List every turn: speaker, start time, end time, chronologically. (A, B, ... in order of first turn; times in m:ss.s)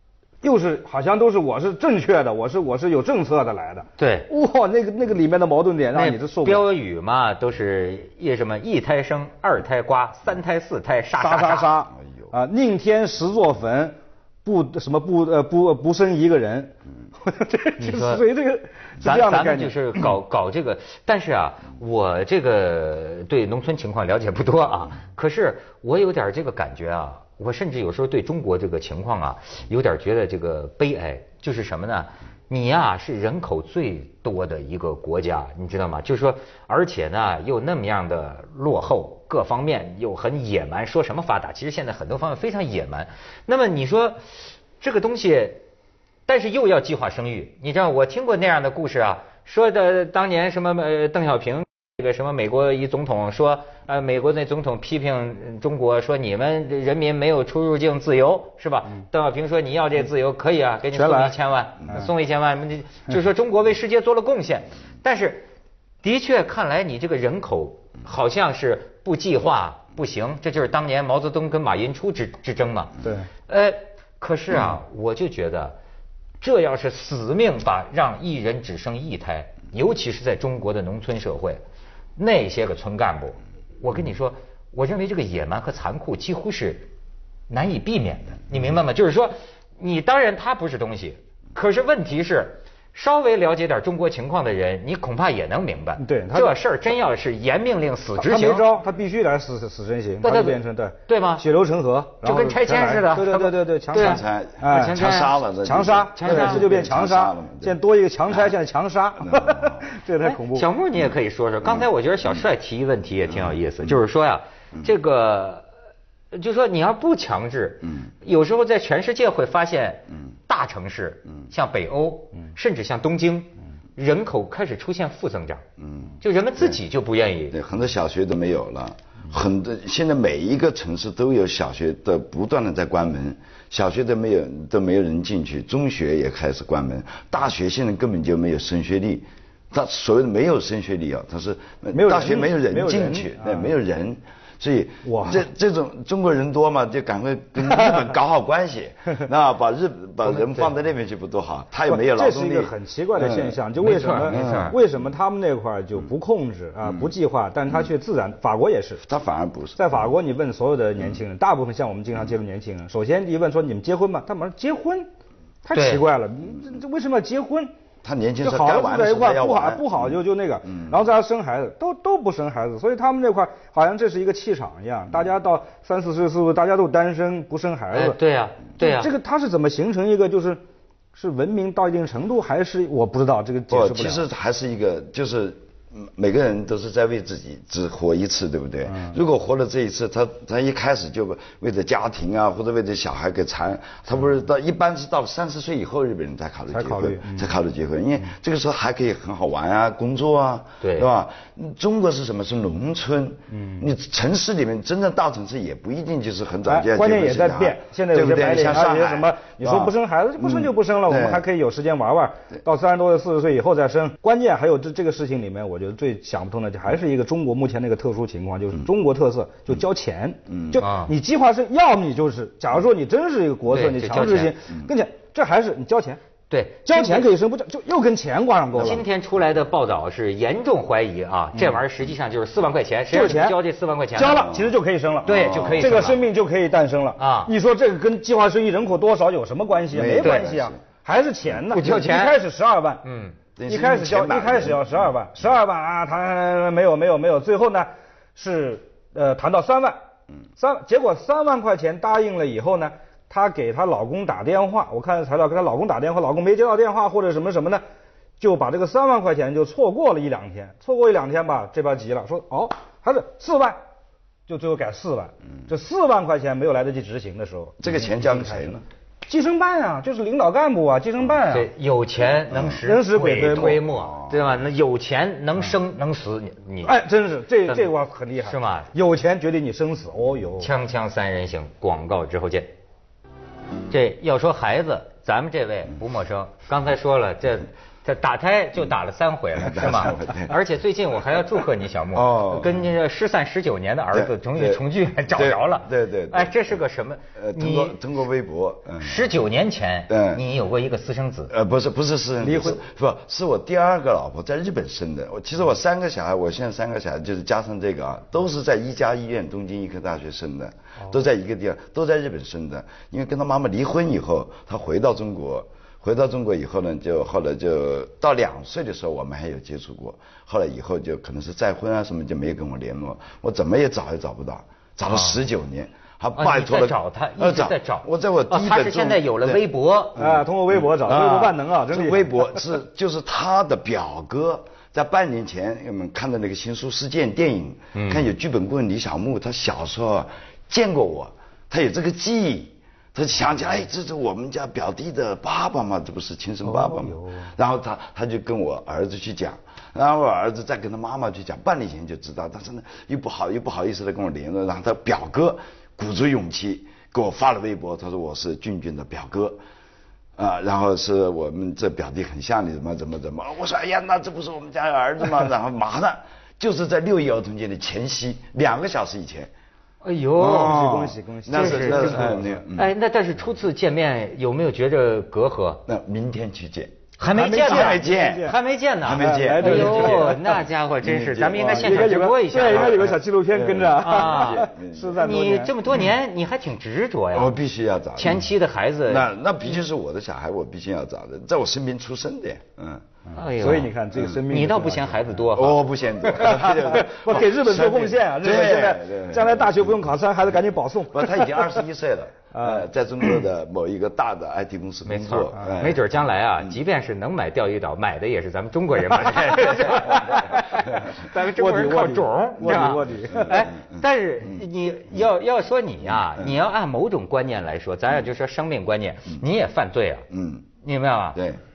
0:00.4-0:06.7 A
0:04.0-0:04.3 B
0:05.9-0:11.8 B
0:11.2-0:19.8 A
0:17.8-0:18.2 B
0:19.0-0:45.6 B
0:46.3-1:05.5 B
1:00.9-1:01.4 A
1:06.0-1:15.8 B
1:13.0-1:13.3 A
1:16.4-1:21.6 B
1:22.2-1:26.9 B
1:27.5-1:38.6 B
1:36.0-1:36.6 A
1:38.2-1:45.0 A
1:40.2-1:41.4 B
1:42.2-1:45.4 B
1:43.9-1:47.8 C
1:45.6-1:50.7 A
1:46.2-1:46.7 B
1:49.2-1:49.8 C
1:50.2-1:55.7 B
1:56.3-2:05.6 B
2:05.8-2:06.8 C
2:06.2-2:07.6 B
2:07.5-2:33.6 C
2:21.9-2:23.7 A
2:25.0-2:25.5 A
2:31.9-2:39.0 A
2:33.8-2:34.8 B
2:34.3-2:34.8 C
2:39.0-2:39.8 C
2:39.8-2:45.1 A
2:45.6-2:47.7 A
2:45.7-2:46.0 B
2:48.0-2:50.1 C
2:48.4-2:58.2 A
2:57.9-2:59.1 B
2:58.8-3:00.6 A
3:01.1-3:04.3 A
3:03.7-3:31.4 C
3:08.9-3:09.2 A
3:16.7-3:17.5 A
3:20.8-3:21.1 B
3:23.5-3:23.9 A
3:26.7-3:46.2 A
3:40.8-3:41.1 B
3:43.7-3:44.6 B
3:46.5-3:47.3 B
3:46.9-3:49.0 A
3:48.8-3:54.5 B
3:53.1-3:53.6 A
3:54.2-4:03.0 A
3:54.4-3:54.7 C
3:55.2-3:56.0 C
3:55.3-3:56.2 B
3:57.2-3:57.5 B
3:59.9-4:00.8 C
4:00.2-4:00.5 B
4:01.7-4:02.4 B
4:03.0-4:03.4 B
4:03.6-4:04.9 C
4:03.7-4:10.0 A
4:10.6-4:17.8 A
4:18.4-4:23.8 A
4:24.5-4:28.7 A
4:27.8-4:28.8 C
4:29.3-4:31.7 A
4:31.5-4:37.0 B
4:32.8-4:33.8 A
4:34.0-4:34.4 C
4:36.8-4:40.7 A
4:37.7-4:38.9 B
4:40.6-4:42.7 B
4:43.9-4:58.0 B
4:49.6-4:50.6 C
4:52.1-4:52.8 C
4:54.1-4:56.7 C
4:57.4-4:59.3 C
4:59.0-5:01.5 B
5:00.1-5:00.4 C
5:01.5-5:29.6 C
5:02.4-5:02.8 A
5:25.1-5:25.4 B
5:26.4-5:30.2 B
5:30.2-5:59.6 C
5:30.2-5:32.7 A
5:38.0-5:38.3 B
5:46.6-5:47.5 A
6:00.4-6:09.5 C
6:10.0-6:10.9 B
6:10.4-6:12.9 C
6:10.5-6:12.6 A
6:11.5-6:15.8 B
6:15.9-6:17.0 C
6:17.2-6:23.2 B
6:17.3-6:20.4 A
6:17.5-6:25.3 C
6:21.6-6:25.8 A
6:24.0-6:24.6 B
6:25.2-6:27.5 B
6:27.3-6:28.5 C
6:28.2-6:29.3 B
6:29.1-6:33.0 C
6:33.3-6:35.3 A
6:33.4-6:36.6 B
6:35.5-6:40.2 C
6:36.3-6:41.8 A
6:41.1-6:46.1 C
6:42.5-6:42.9 A
6:45.1-7:00.3 B
6:45.6-6:45.8 A
6:51.3-6:53.7 A
6:53.5-6:54.0 C
7:00.3-7:00.7 C
7:00.8-7:01.5 B
7:01.4-7:01.6 C